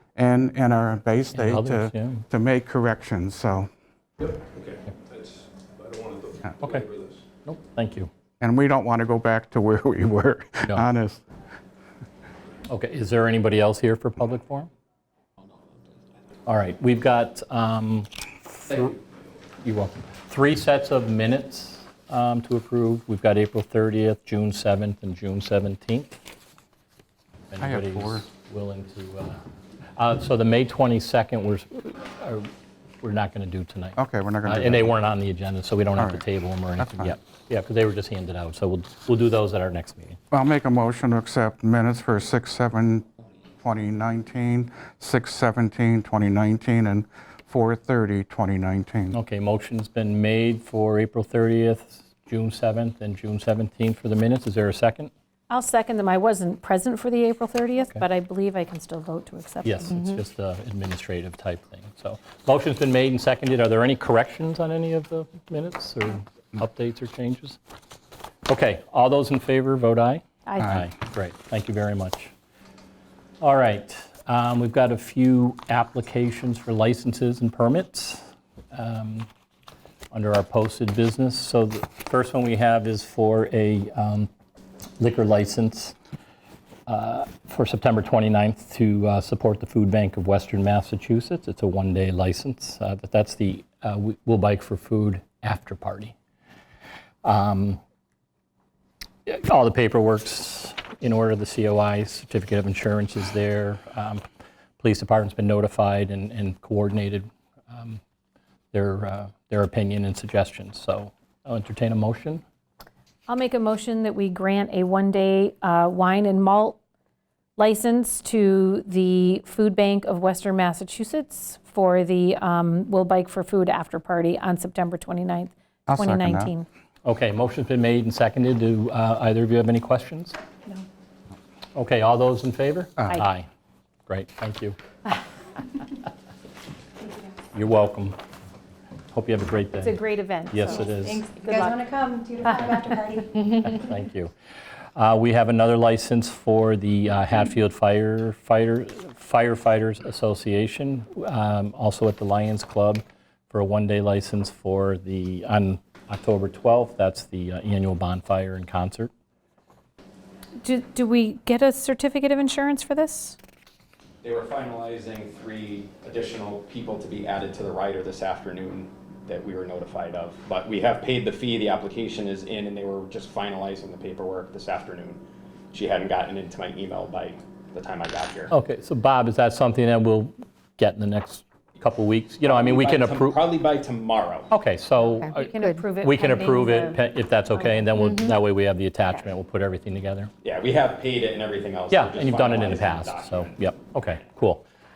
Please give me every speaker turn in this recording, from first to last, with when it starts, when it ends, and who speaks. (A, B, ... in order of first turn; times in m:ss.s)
0:00.2-0:03.7 A
0:01.3-0:02.2 B
0:04.4-0:07.2 C
0:06.6-0:06.9 B
0:07.4-0:08.1 B
0:08.4-0:11.2 A
0:12.7-0:14.7 B
0:16.5-0:19.0 B
0:19.6-0:26.2 B
0:27.5-0:29.4 B
0:27.6-0:28.3 A
0:30.0-0:32.5 B
0:33.0-0:40.2 B
0:34.0-0:35.0 A
0:36.0-0:36.2 A
0:36.8-0:37.2 A
0:40.3-0:43.1 A
0:43.6-0:49.2 A
0:49.1-0:55.1 B
0:55.5-1:00.0 D
0:59.6-1:07.6 B
1:08.5-1:12.3 B
1:10.5-1:10.8 D
1:13.4-1:19.3 B
1:20.1-1:24.3 B
1:25.0-1:26.0 B
1:26.9-1:36.1 B
1:37.2-1:37.8 B
1:39.3-1:44.2 B
1:44.8-1:48.0 B
1:48.7-1:52.4 B
1:53.3-1:56.8 D
1:57.6-2:06.7 D
2:05.9-2:06.5 A
2:07.0-2:10.4 B
2:11.8-2:13.5 B
2:14.1-2:14.8 B
2:17.5-2:18.2 B
2:19.1-2:21.3 B
2:19.8-2:21.9 D
2:21.2-2:23.3 E
2:22.4-2:23.4 D
2:23.5-2:24.3 B
2:25.0-2:39.1 B
2:40.6-2:43.4 D
2:44.2-2:58.5 F
2:58.5-3:03.5 B
3:02.4-3:04.5 F
3:04.5-3:10.3 B
3:05.0-3:07.9 D
3:10.4-3:13.6 F
3:11.9-3:14.6 B